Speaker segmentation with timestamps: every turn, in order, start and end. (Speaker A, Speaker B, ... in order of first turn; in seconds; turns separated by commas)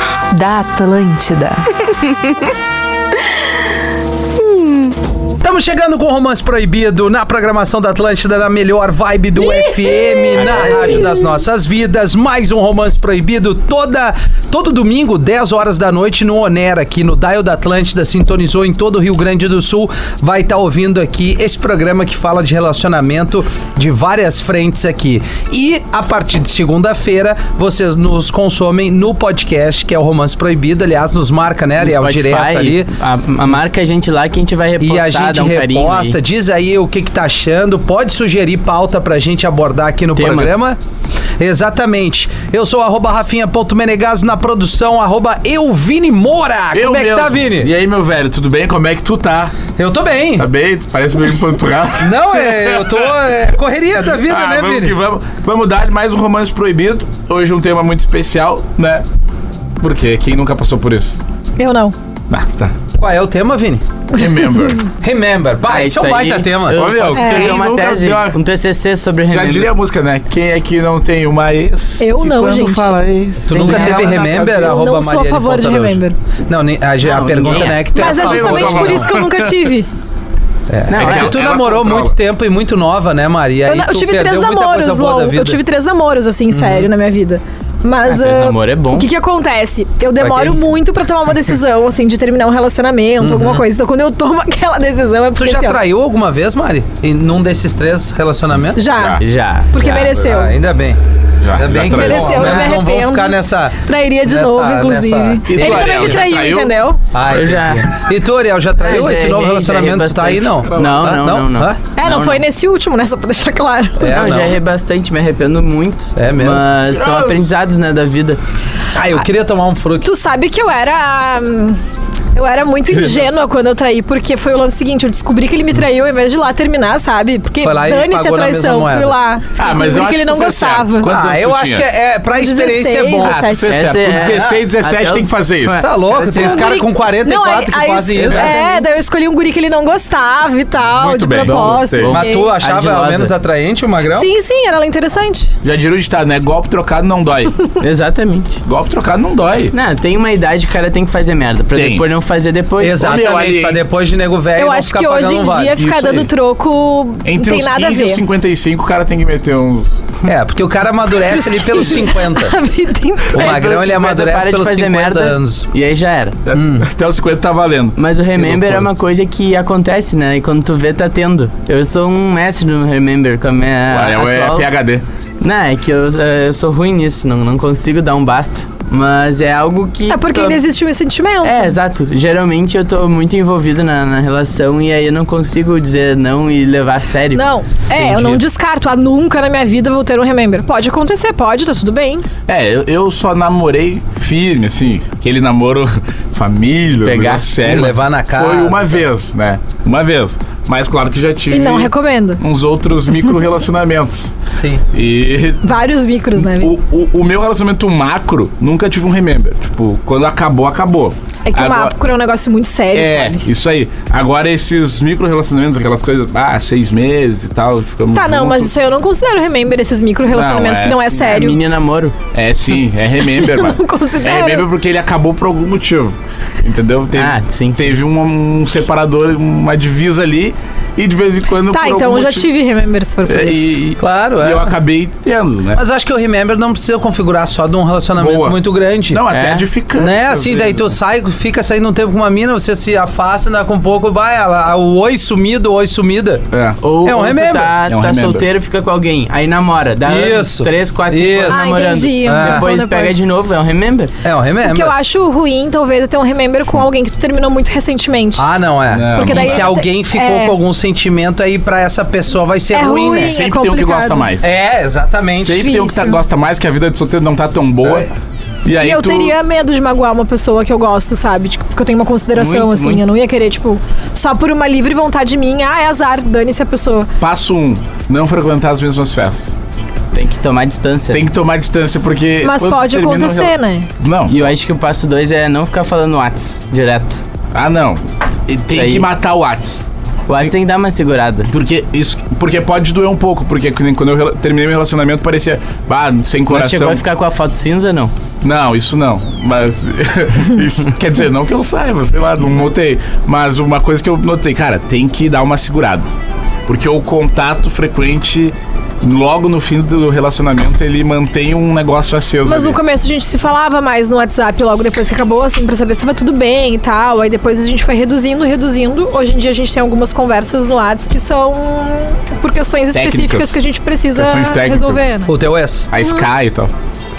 Speaker A: 0.3-2.4, Speaker B: 5.4-32.9, Speaker C: 10.3-11.1, Speaker C: 31.8-36.2, Speaker B: 34.8-40.8, Speaker C: 40.2-40.7, Speaker B: 41.4-47.7, Speaker D: 46.7-49.6, Speaker B: 49.8-50.5, Speaker D: 50.4-52.9, Speaker B: 52.0-55.0, Speaker D: 54.2-59.0, Speaker D: 59.8-61.2, Speaker E: 61.6-61.9, Speaker D: 62.3-62.7, Speaker B: 62.9-63.8, Speaker D: 64.1-64.8, Speaker B: 65.0-66.8, Speaker C: 65.6-69.7, Speaker D: 66.7-68.4, Speaker E: 67.2-67.6, Speaker D: 69.3-74.9, Speaker E: 72.0-72.9, Speaker B: 73.5-79.1, Speaker C: 73.5-74.1, Speaker E: 73.7-76.2, Speaker C: 77.0-77.9, Speaker D: 77.4-79.5, Speaker E: 77.9-79.9, Speaker B: 80.7-85.6, Speaker C: 80.9-81.4, Speaker D: 80.9-82.1, Speaker E: 83.7-95.8, Speaker B: 86.5-86.9, Speaker C: 88.1-89.1, Speaker B: 93.2-93.7, Speaker B: 95.4-99.0, Speaker E: 98.8-100.5, Speaker D: 98.9-99.2, Speaker C: 99.2-100.2, Speaker B: 100.1-101.0, Speaker D: 101.4-102.7, Speaker B: 101.5-106.2, Speaker E: 101.8-107.0, Speaker D: 105.5-106.7, Speaker C: 105.6-106.0, Speaker B: 107.1-111.8, Speaker C: 107.3-107.9, Speaker C: 108.8-112.4, Speaker D: 110.7-111.1, Speaker E: 112.0-114.2, Speaker B: 114.0-114.6, Speaker C: 114.1-118.4, Speaker B: 116.2-116.7, Speaker D: 116.9-117.4, Speaker B: 118.9-120.1, Speaker E: 120.0-121.8, Speaker E: 122.3-131.1, Speaker B: 127.6-129.2, Speaker D: 129.6-131.9, Speaker B: 131.0-133.4, Speaker E: 132.3-133.8, Speaker D: 133.2-135.8, Speaker C: 133.7-136.8, Speaker B: 134.2-134.6, Speaker B: 135.8-138.8, Speaker E: 136.3-142.3, Speaker D: 138.2-138.6, Speaker D: 140.9-142.2, Speaker C: 141.4-143.3, Speaker B: 142.1-144.3, Speaker E: 144.1-145.5, Speaker D: 145.6-147.6, Speaker C: 147.8-148.6, Speaker D: 148.7-149.7, Speaker C: 149.7-153.2, Speaker D: 151.7-152.0, Speaker B: 152.8-155.8, Speaker D: 152.9-153.8, Speaker E: 154.6-158.2, Speaker D: 155.8-156.3, Speaker D: 157.2-159.9, Speaker B: 160.2-162.6, Speaker E: 161.8-163.6, Speaker B: 163.3-165.7, Speaker C: 163.3-166.4, Speaker D: 166.5-168.9, Speaker B: 166.5-166.9, Speaker C: 168.0-174.7, Speaker D: 173.9-175.0, Speaker C: 175.4-180.6, Speaker E: 180.1-181.8, Speaker C: 181.4-187.4, Speaker E: 187.3-192.3, Speaker B: 188.0-188.4, Speaker D: 192.5-204.4, Speaker C: 197.0-197.5, Speaker B: 197.6-199.1, Speaker E: 201.5-202.4, Speaker B: 204.5-204.8, Speaker D: 204.9-205.7, Speaker E: 205.6-206.7, Speaker D: 206.3-212.0, Speaker E: 211.4-213.4, Speaker D: 212.9-218.7, Speaker E: 218.1-221.6, Speaker D: 220.3-221.4, Speaker C: 221.2-222.2, Speaker D: 222.3-232.5, Speaker E: 223.4-224.7, Speaker C: 227.2-227.9, Speaker E: 231.7-233.7, Speaker D: 233.3-235.8, Speaker B: 234.0-234.7, Speaker B: 235.8-239.2, Speaker D: 238.2-238.6, Speaker D: 239.1-240.9, Speaker C: 239.3-239.7, Speaker B: 240.0-246.4, Speaker D: 246.5-246.8, Speaker C: 246.8-254.1, Speaker B: 247.0-247.8, Speaker D: 247.9-248.5, Speaker B: 250.1-251.7, Speaker E: 251.5-253.2, Speaker B: 252.2-252.7, Speaker B: 254.2-254.9, Speaker E: 254.6-258.5, Speaker B: 258.4-263.4, Speaker D: 258.9-259.7, Speaker E: 259.1-260.6, Speaker E: 262.7-264.3, Speaker D: 263.1-264.5, Speaker B: 264.4-265.7, Speaker D: 265.3-268.1, Speaker E: 265.6-266.2, Speaker B: 267.8-268.1, Speaker D: 268.6-269.4, Speaker E: 268.8-277.1, Speaker C: 272.4-273.1, Speaker D: 277.2-279.6, Speaker C: 280.1-281.2, Speaker D: 281.1-284.4, Speaker E: 282.4-283.9, Speaker C: 284.3-287.2, Speaker D: 287.5-289.9, Speaker C: 288.7-289.1, Speaker C: 290.3-291.5, Speaker D: 291.5-297.0, Speaker C: 296.5-298.1, Speaker D: 298.4-306.1, Speaker D: 306.7-312.8, Speaker E: 312.5-325.3, Speaker D: 322.9-325.0, Speaker B: 325.3-325.9, Speaker D: 325.9-326.7